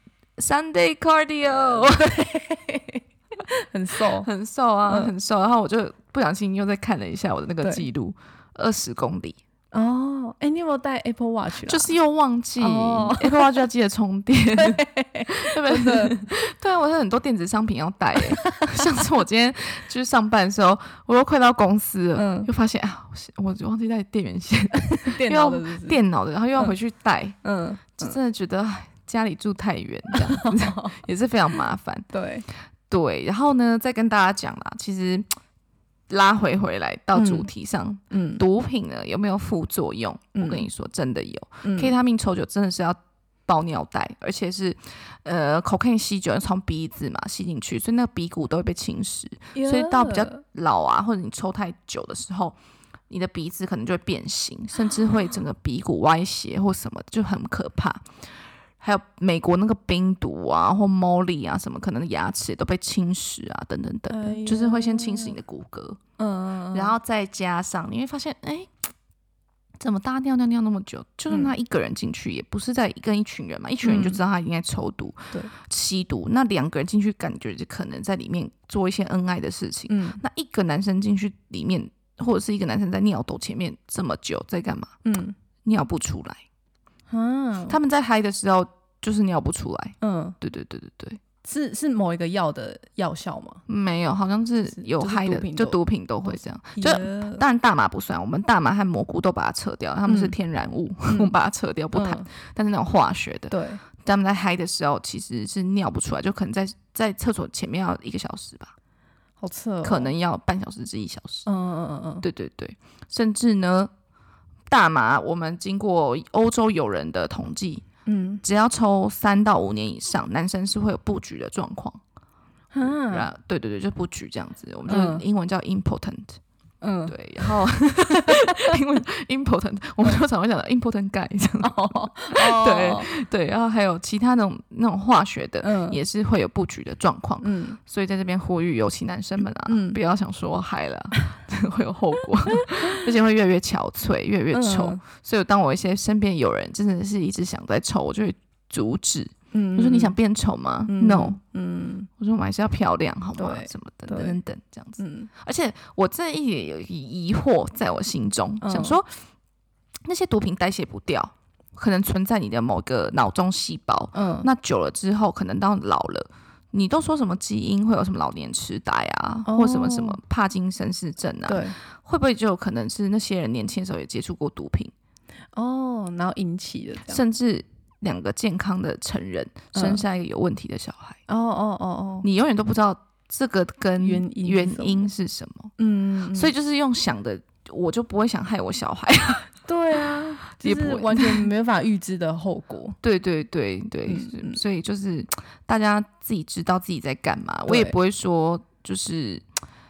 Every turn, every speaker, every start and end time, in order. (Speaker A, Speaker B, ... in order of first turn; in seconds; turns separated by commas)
Speaker A: 0.4-2.3, Speaker B: 1.8-4.3, Speaker A: 4.0-9.4, Speaker B: 9.7-11.9, Speaker A: 11.6-27.4, Speaker B: 12.6-13.6, Speaker B: 14.5-16.2, Speaker B: 18.4-18.8, Speaker B: 22.1-22.5, Speaker B: 24.7-26.0, Speaker B: 27.4-28.2, Speaker A: 28.0-32.1, Speaker B: 30.1-31.0, Speaker B: 32.1-32.5, Speaker A: 32.9-35.3, Speaker A: 36.1-52.5, Speaker B: 37.1-37.5, Speaker B: 38.1-38.4, Speaker B: 40.3-40.7, Speaker B: 41.6-41.9, Speaker B: 49.5-50.4, Speaker A: 53.1-58.1, Speaker A: 58.8-66.0, Speaker B: 64.1-65.4, Speaker B: 66.2-66.9, Speaker A: 66.7-68.7, Speaker A: 69.8-85.0, Speaker B: 73.8-74.2, Speaker B: 79.9-80.2, Speaker B: 85.0-85.3, Speaker A: 85.6-86.4, Speaker B: 87.1-87.8, Speaker A: 87.7-91.2, Speaker B: 90.0-90.4, Speaker B: 91.4-93.6, Speaker A: 93.7-108.7, Speaker B: 94.7-97.4, Speaker B: 100.1-100.4, Speaker B: 101.1-101.3, Speaker B: 101.9-102.3, Speaker B: 103.5-103.8, Speaker B: 109.4-110.1, Speaker A: 109.8-111.5, Speaker B: 111.5-112.2, Speaker A: 112.2-113.9, Speaker A: 114.7-117.8, Speaker B: 118.0-118.4, Speaker A: 118.4-122.0, Speaker B: 122.7-123.3, Speaker A: 122.8-126.4, Speaker B: 124.9-125.2, Speaker B: 126.8-128.7, Speaker A: 127.1-151.4, Speaker B: 131.6-133.1, Speaker B: 135.6-136.0, Speaker B: 137.4-137.8, Speaker B: 139.6-140.0, Speaker B: 142.5-142.9, Speaker B: 144.5-145.0, Speaker B: 149.5-150.2, Speaker B: 150.9-152.1, Speaker A: 152.2-159.1, Speaker B: 153.3-154.4, Speaker B: 155.0-155.3, Speaker B: 158.6-159.0, Speaker A: 160.0-174.9, Speaker B: 164.1-164.5, Speaker B: 169.4-170.2, Speaker B: 171.5-171.8, Speaker B: 175.5-177.2, Speaker A: 177.1-181.2, Speaker B: 179.7-180.0, Speaker B: 181.3-182.3, Speaker A: 182.2-185.7, Speaker B: 184.0-185.1, Speaker B: 185.8-186.5, Speaker A: 186.3-191.5, Speaker B: 189.6-193.0, Speaker A: 193.0-199.4, Speaker B: 194.1-194.6, Speaker B: 197.7-197.9